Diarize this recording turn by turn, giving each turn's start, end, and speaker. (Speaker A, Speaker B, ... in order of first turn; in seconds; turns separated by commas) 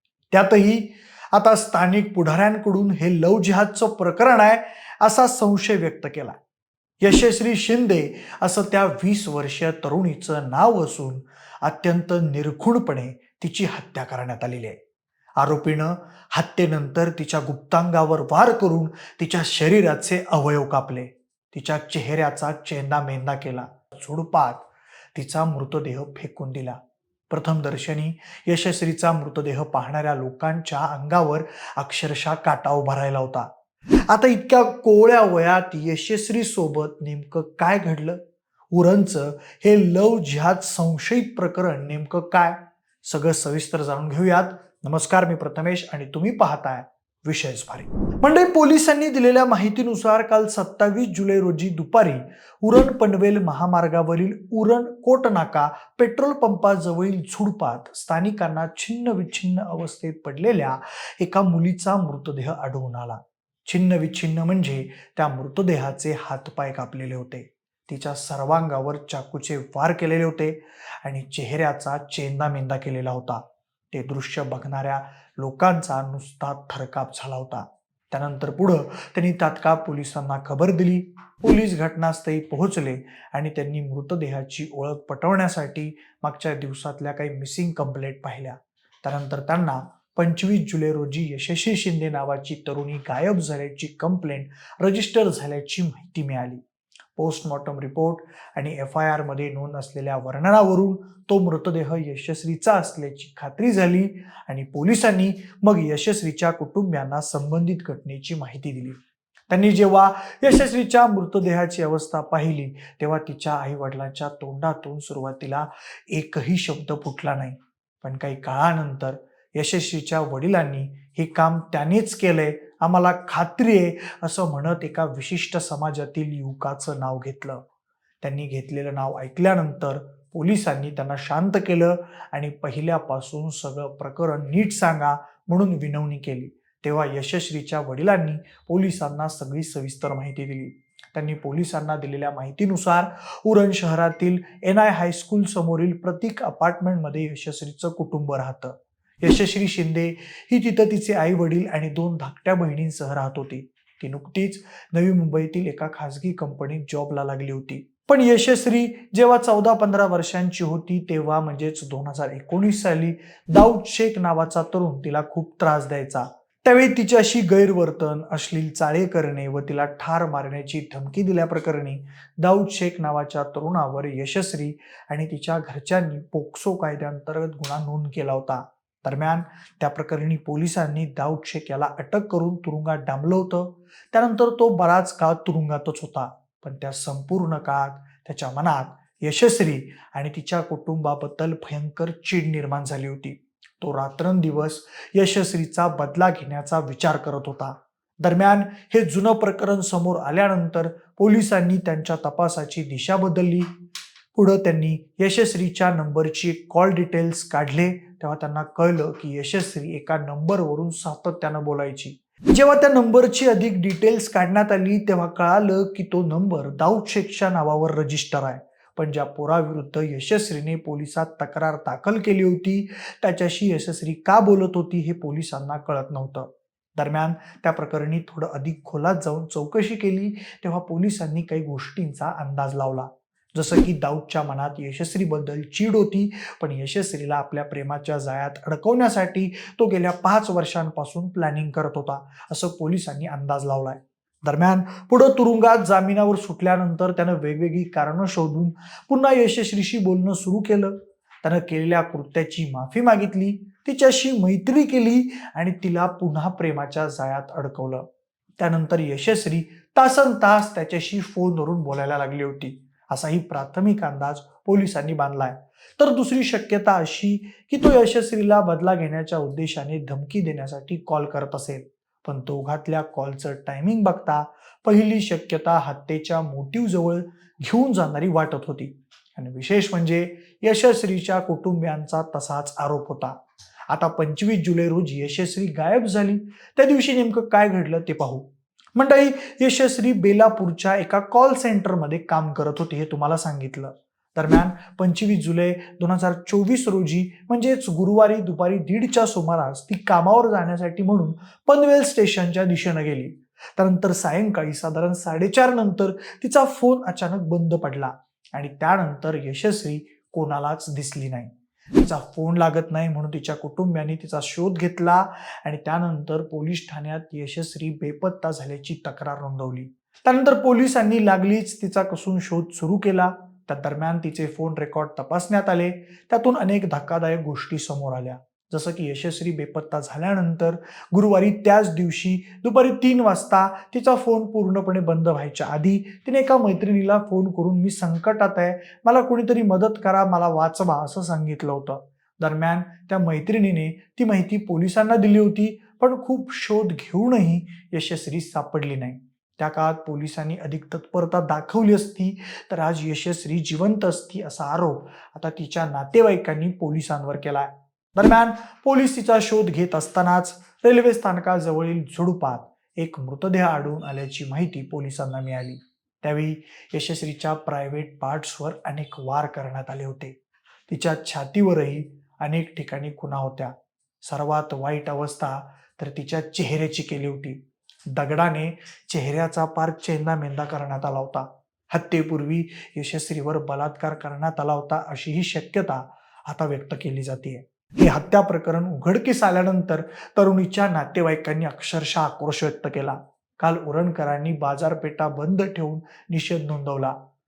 Speaker A: 0.3-6.3, Speaker A: 7.0-14.8, Speaker A: 15.4-26.8, Speaker A: 27.3-33.5, Speaker A: 34.1-38.2, Speaker A: 38.7-96.6, Speaker A: 97.2-109.0, Speaker A: 109.5-127.6, Speaker A: 128.2-203.7, Speaker A: 204.3-258.1, Speaker A: 258.6-370.4, Speaker A: 370.9-377.6, Speaker A: 378.1-397.1